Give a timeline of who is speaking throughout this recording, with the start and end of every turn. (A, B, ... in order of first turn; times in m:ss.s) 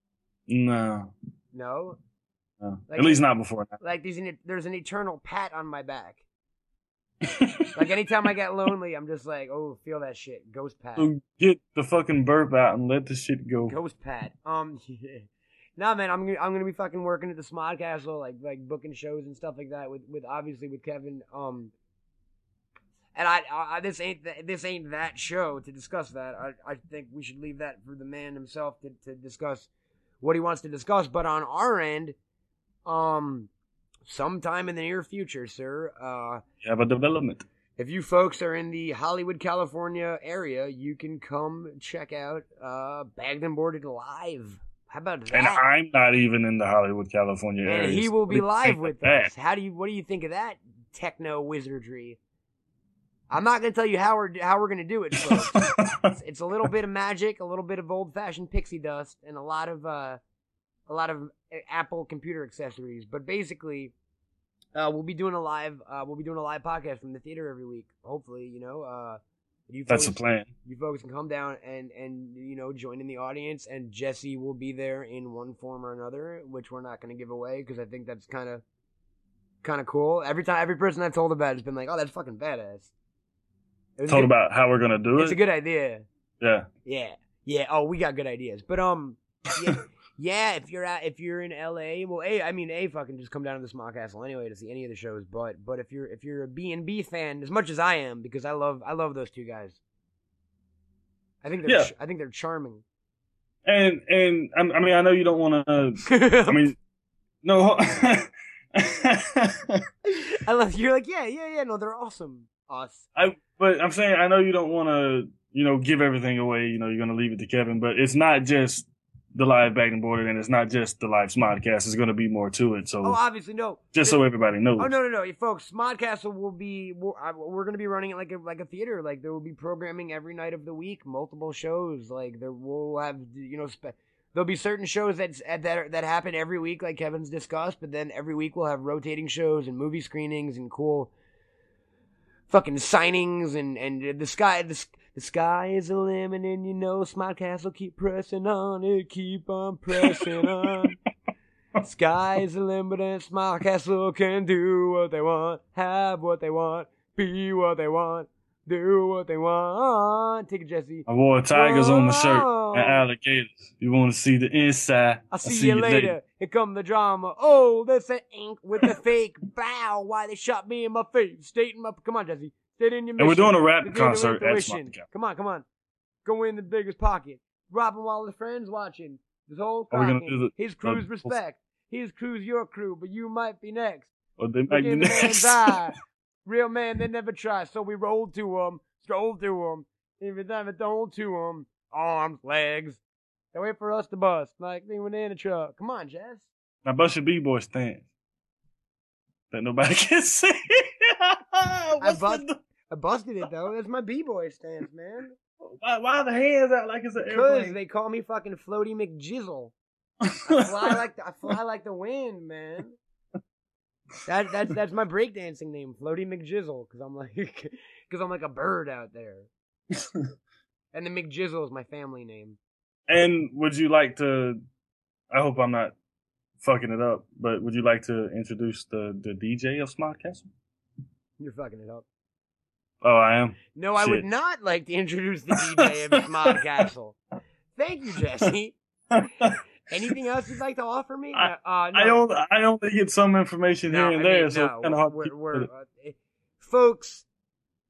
0:00.5-0:01.1 A
0:01.5-0:02.0 B
0:02.6-0:03.8 A
0:02.9-0:03.2 B
0:03.8-0:06.2 B
0:07.2-0:07.8 A
0:07.7-0:11.1 B
0:11.0-0:13.8 A
0:13.7-0:21.7 B
0:23.2-0:29.7 B
0:30.2-0:32.2 B
0:32.8-0:33.5 B
0:34.1-0:36.4 B
0:36.6-0:37.5 A
0:37.8-0:45.7 B
0:45.3-0:49.3 A
0:47.6-0:52.2 B
0:53.3-1:00.2 B
0:55.2-0:56.1 A
1:00.9-1:03.9 B
1:04.8-1:18.6 B
1:09.9-1:10.5 A
1:19.6-1:22.9 B
1:24.0-1:24.3 B
1:24.1-1:25.4 A
1:25.2-1:26.0 B
1:26.4-1:26.7 A
1:26.8-1:39.8 B
1:41.4-1:42.8 B
1:41.7-1:41.9 A
1:43.6-1:46.8 A
1:46.0-1:46.7 B
1:47.4-1:49.8 A
1:50.4-1:53.1 B
1:53.2-2:03.2 A
2:03.0-2:04.2 B
2:03.9-2:04.9 A
2:04.8-2:21.1 B
2:22.5-2:31.0 B
2:30.0-2:30.9 A
2:31.8-2:43.0 B
2:41.1-2:46.2 A
2:45.3-2:55.6 B
2:53.2-2:55.0 A
2:56.2-3:04.1 B
2:59.9-3:01.4 A
3:04.4-3:05.8 A
3:04.7-3:13.0 B
3:13.5-3:16.5 B
3:16.8-3:18.1 A
3:19.5-3:22.6 A
3:22.0-3:25.4 B
3:25.6-3:27.8 A
3:27.3-3:29.7 B
3:30.2-3:31.0 A
3:30.5-3:33.0 B
3:34.2-3:39.5 B
3:40.9-3:42.6 B
3:43.1-3:44.6 A
3:45.3-3:46.0 A
3:46.6-3:50.5 A
3:51.4-3:52.1 B
3:53.0-3:54.2 A
3:53.7-3:57.2 B
3:57.7-3:58.8 B
3:59.1-4:00.2 A
3:59.9-4:02.2 B
4:01.3-4:05.7 A
4:03.9-4:07.2 B